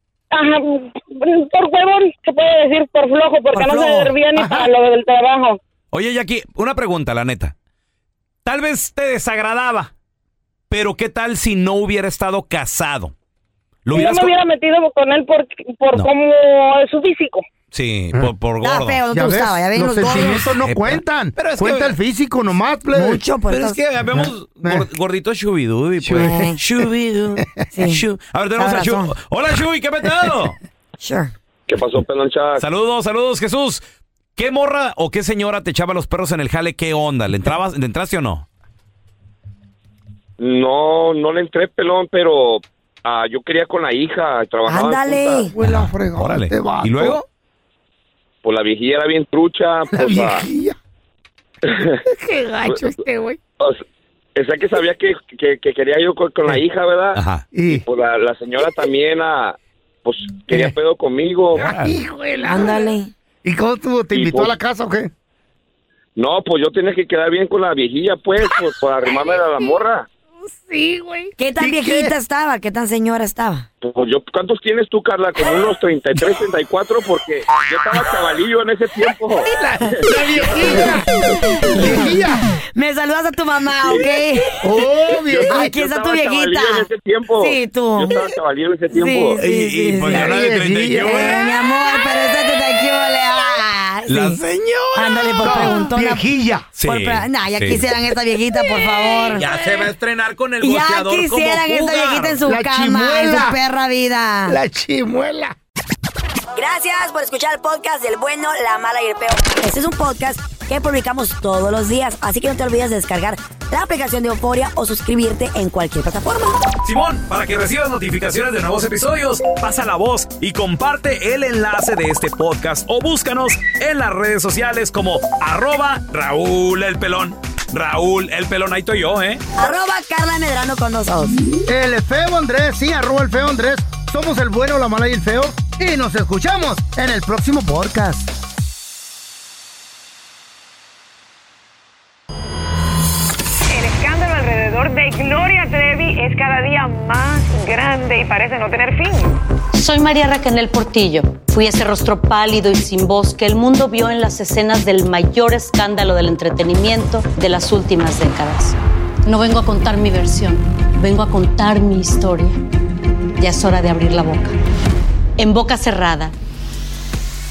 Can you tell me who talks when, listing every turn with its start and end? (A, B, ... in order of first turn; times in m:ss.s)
0:00.3-0:05.6 A
0:03.5-0:04.1 B
0:04.4-0:04.7 C
0:05.9-0:07.5 D
0:08.4-0:09.9 D
0:10.7-0:13.1 D
0:13.9-0:14.4 D
0:13.9-0:17.5 A
0:17.7-0:19.0 D
0:18.6-0:20.5 B
0:19.1-0:23.2 C
0:20.1-0:22.0 D
0:22.9-0:23.8 B
0:23.5-0:30.6 D
0:24.1-0:24.9 C
0:26.0-0:26.8 C
0:26.1-0:26.6 B
0:27.4-0:27.6 C
0:27.7-0:28.0 B
0:28.6-0:29.2 B
0:31.0-0:31.3 B
0:31.7-0:32.6 E
0:32.6-0:33.8 D
0:34.4-0:38.4 D
0:40.4-0:45.5 E
0:44.7-0:45.5 B
0:45.5-0:47.2 C
0:45.6-0:47.2 D
0:48.4-0:50.5 E
0:49.9-0:50.8 C
0:51.7-0:52.0 E
0:52.0-0:53.4 C
0:52.7-0:53.0 E
0:54.4-1:01.7 E
0:57.1-0:57.5 D
0:57.5-0:57.8 C
1:00.5-1:00.8 C
1:01.6-1:02.0 D
1:01.6-1:02.9 C
1:02.4-1:03.1 B
1:03.4-1:05.1 C
1:04.1-1:04.5 E
1:06.2-1:10.1 E
1:10.6-1:12.2 C
1:11.4-1:13.7 B
1:13.8-1:19.5 E
1:19.5-1:22.4 C
1:21.8-1:22.2 B
1:22.8-1:24.6 B
1:23.8-1:24.1 E
1:24.6-1:25.7 C
1:25.1-1:29.4 E
1:25.5-1:26.9 B
1:27.4-1:28.3 B
1:28.9-1:30.4 B
1:29.4-1:31.5 D
1:30.0-1:31.4 C
1:31.0-1:34.4 B
1:34.1-1:35.7 D
1:35.0-1:36.3 B
1:35.4-1:36.7 C
1:36.8-1:37.9 D
1:36.8-1:39.5 B
1:39.4-1:42.4 D
1:40.6-1:44.6 B
1:42.4-1:43.6 C
1:44.5-1:45.6 C
1:46.5-1:56.6 B
1:56.8-2:09.4 D
2:09.6-2:11.4 B
2:11.6-2:18.3 C
2:23.7-2:29.4 F
2:29.7-2:42.6 G
2:43.4-2:44.6 G
2:45.4-2:46.3 G